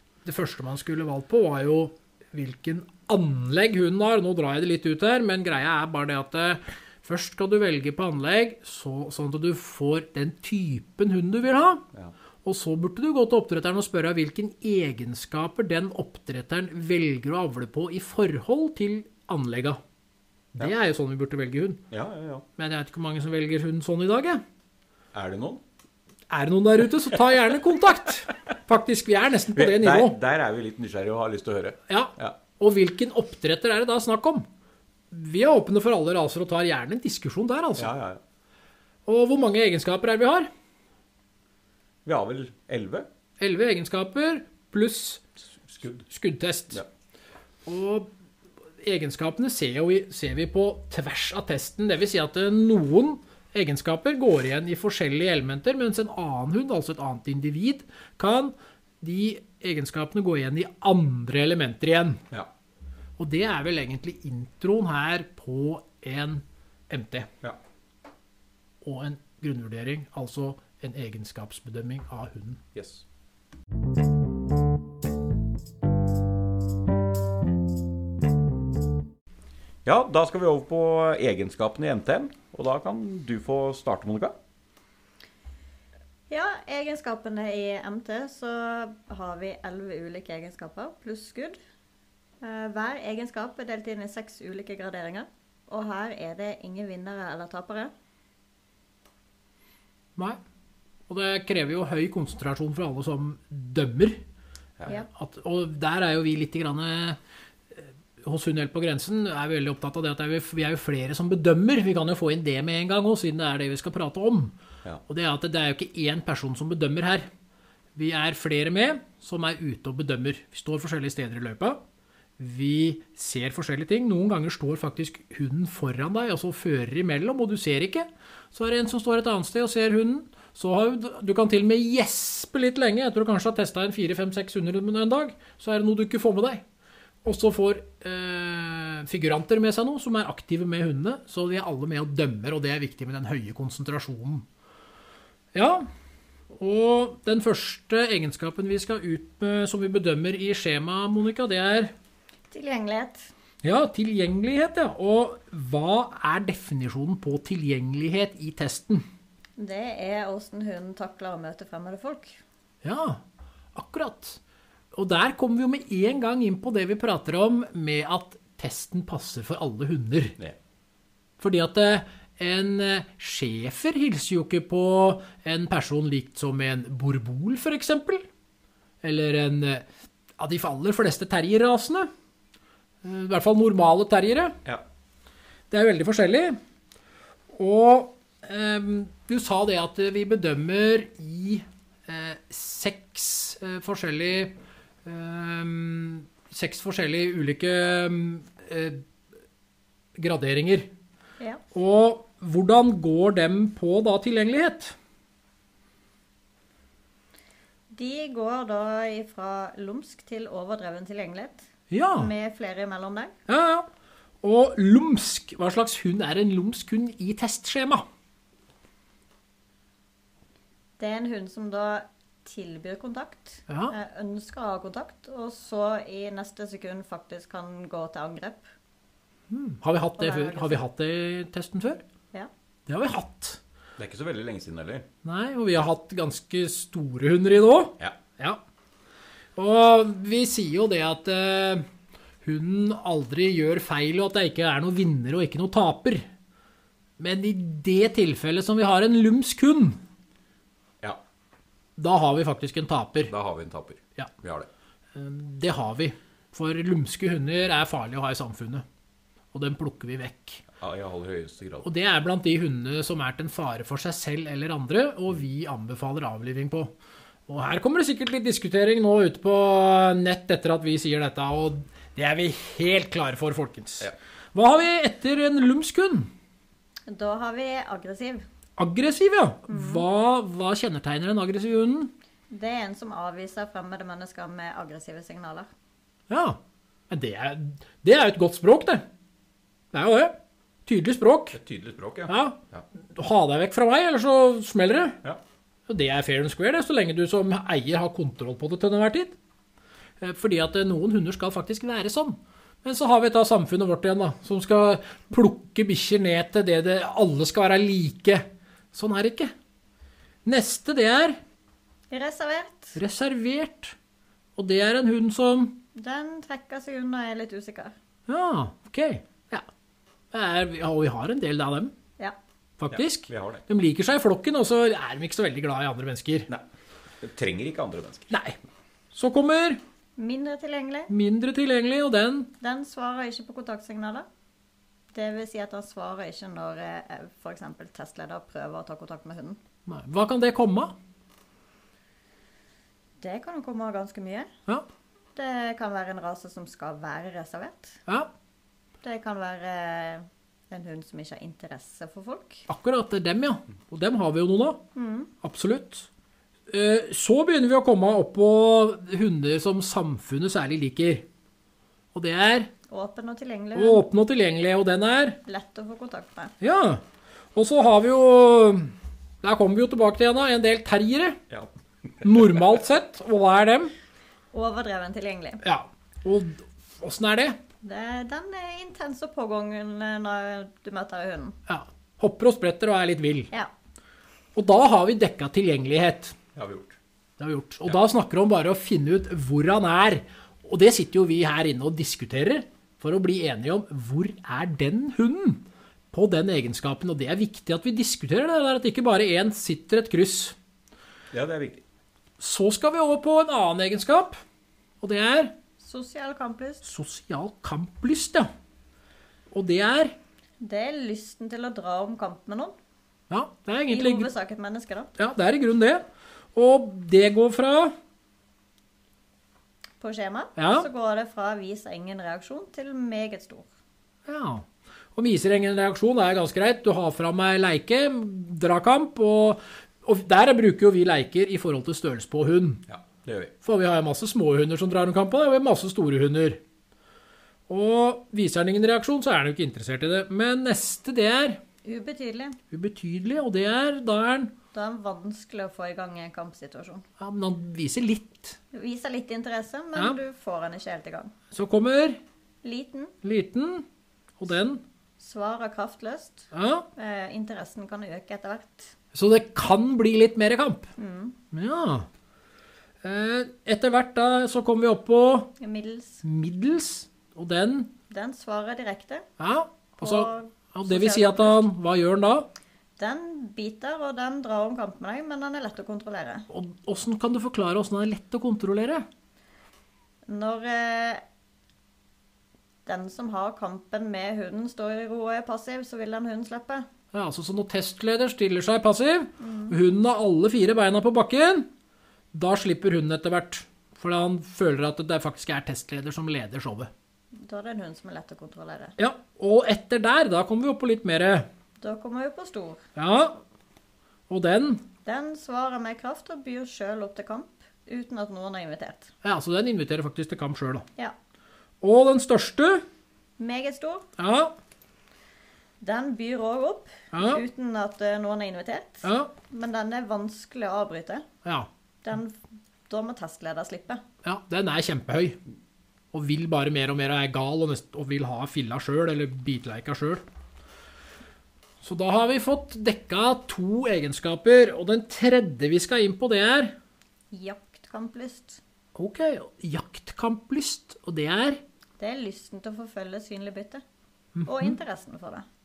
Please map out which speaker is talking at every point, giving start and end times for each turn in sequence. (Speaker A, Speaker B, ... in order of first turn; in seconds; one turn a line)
Speaker A: 0.2-11.8
Speaker A: 12.4-19.8
Speaker A: 20.5-21.8
Speaker B: 21.9-22.4
Speaker A: 22.6-24.4
Speaker B: 25.1-25.6
Speaker A: 26.3-30.1
Speaker B: 29.5-32.4
Speaker A: 31.9-34.5
Speaker A: 35.1-37.9
Speaker B: 37.8-38.2
Speaker A: 39.0-40.5
Speaker B: 42.0-43.1
Speaker A: 43.4-45.2
Speaker B: 45.6-46.0
Speaker A: 46.1-46.8
Speaker A: 47.6-48.1
Speaker A: 48.8-62.2
Speaker A: 63.2-67.3
Speaker A: 68.8-72.6
Speaker B: 72.7-73.0
Speaker B: 79.8-84.3
Speaker C: 86.3-91.6
Speaker C: 92.4-97.9
Speaker A: 101.1-104.2
Speaker A: 105.1-107.2
Speaker A: 107.7-114.5
Speaker A: 115.1-117.3
Speaker A: 118.0-121.8
Speaker A: 122.4-136.6
Speaker A: 137.2-144.4
Speaker A: 145.5-145.9
Speaker A: 146.5-151.9
Speaker C: 152.5-153.3
Speaker A: 153.6-159.0
Speaker C: 159.6-162.4
Speaker A: 162.8-163.2
Speaker A: 163.7-164.4
Speaker A: 164.9-170.4
Speaker A: 171.4-178.2
Speaker A: 179.0-179.8
Speaker A: 180.4-182.1
Speaker A: 183.0-184.6
Speaker A: 185.7-186.6
Speaker A: 187.5-199.0
Speaker A: 200.2-200.9
Speaker A: 201.7-204.9
Speaker C: 207.9-213.3
Speaker A: 211.9-212.3
Speaker A: 213.5-213.9
Speaker A: 214.4-218.0
Speaker C: 221.0-228.7
Speaker A: 223.7-223.9
Speaker A: 229.5-232.0
Speaker C: 230.2-230.8
Speaker A: 232.9-233.6
Speaker B: 234.0-235.1
Speaker A: 235.2-238.6
Speaker A: 239.6-241.8
Speaker A: 242.4-246.2
Speaker A: 247.2-250.0
Speaker A: 252.0-253.3
Speaker B: 253.3-254.7
Speaker A: 255.1-258.8
Speaker A: 259.5-260.6
Speaker B: 260.8-261.9
Speaker A: 261.8-266.9
Speaker A: 267.5-276.3
Speaker C: 277.1-278.4
Speaker A: 278.8-282.1
Speaker C: 279.7-280.0
Speaker C: 282.5-285.7
Speaker A: 286.3-286.6
Speaker A: 287.1-289.0
Speaker A: 289.9-290.3
Speaker A: 290.9-291.6
Speaker B: 291.5-292.8
Speaker A: 292.3-292.6
Speaker A: 293.1-295.2
Speaker A: 295.9-299.3
Speaker A: 300.2-309.5
Speaker A: 310.4-311.4
Speaker C: 312.1-313.0
Speaker A: 312.9-313.9
Speaker A: 314.6-315.8
Speaker C: 315.9-317.9
Speaker A: 318.3-319.6
Speaker A: 320.3-321.9
Speaker A: 322.8-326.5
Speaker B: 322.9-323.6
Speaker B: 327.2-328.3
Speaker A: 328.3-328.6
Speaker A: 329.1-329.8
Speaker C: 330.2-331.1
Speaker A: 331.1-332.5
Speaker C: 332.6-334.2
Speaker C: 335.1-339.6
Speaker A: 339.9-340.9
Speaker C: 343.2-344.5
Speaker C: 345.4-348.0
Speaker C: 349.0-352.6
Speaker A: 352.7-354.8
Speaker C: 354.9-355.3
Speaker A: 355.4-356.1
Speaker A: 356.7-361.2
Speaker A: 362.1-362.7
Speaker C: 362.9-364.0
Speaker A: 363.7-365.4
Speaker C: 365.4-366.5
Speaker A: 366.6-367.0
Speaker A: 367.5-371.4
Speaker A: 372.2-373.9
Speaker C: 374.5-375.6
Speaker A: 375.6-377.6
Speaker C: 377.8-381.6
Speaker A: 381.7-383.5
Speaker A: 384.5-386.4
Speaker B: 386.5-387.0
Speaker A: 387.4-400.5
Speaker B: 401.3-401.8
Speaker A: 402.4-404.4
Speaker A: 405.0-405.5
Speaker C: 405.8-406.8
Speaker A: 406.8-408.5
Speaker A: 409.5-410.1
Speaker C: 410.6-412.7
Speaker A: 413.3-414.3
Speaker C: 413.9-415.1
Speaker A: 415.2-416.0
Speaker A: 416.5-417.9
Speaker C: 420.0-423.7
Speaker A: 420.6-420.9
Speaker A: 424.2-424.6
Speaker A: 425.1-432.8
Speaker B: 432.9-433.5
Speaker A: 433.6-436.6
Speaker A: 437.7-441.6
Speaker C: 441.8-442.6
Speaker A: 442.7-444.5
Speaker C: 444.7-447.0
Speaker A: 447.2-448.6
Speaker C: 448.7-451.3
Speaker A: 451.5-452.2
Speaker C: 452.6-453.1
Speaker A: 453.2-453.8
Speaker A: 454.4-454.8
Speaker C: 455.2-458.9
Speaker A: 456.5-456.9
Speaker A: 459.1-460.9
Speaker C: 461.0-461.4
Speaker A: 461.5-462.1
Speaker A: 463.0-465.5
Speaker C: 465.6-466.2
Speaker A: 466.2-467.9
Speaker C: 468.1-469.2
Speaker A: 469.4-472.5
Speaker C: 470.0-471.6
Speaker C: 473.0-476.4
Speaker A: 476.5-479.1
Speaker C: 480.3-481.2
Speaker C: 482.9-486.9
Speaker A: 487.1-491.7
Speaker C: 489.4-489.8
Speaker A: 492.3-496.9
Speaker C: 497.4-498.9
Speaker A: 499.0-501.5
Speaker C: 501.8-502.8
Speaker A: 502.9-503.4
Speaker A: 504.3-504.8
Speaker C: 505.0-509.1
Speaker A: 509.2-510.9
Speaker A: 511.8-512.8
Speaker C: 513.4-514.1
Speaker A: 514.2-514.5
Speaker C: 515.8-521.2
Speaker A: 517.1-517.4
Speaker A: 519.0-519.3
Speaker C: 522.0-524.0
Speaker A: 524.2-525.4
Speaker A: 526.1-530.2
Speaker A: 531.8-536.7
Speaker C: 537.3-538.6
Speaker A: 538.9-541.6
Speaker C: 542.0-543.8
Speaker A: 544.4-544.8
Speaker C: 544.5-545.5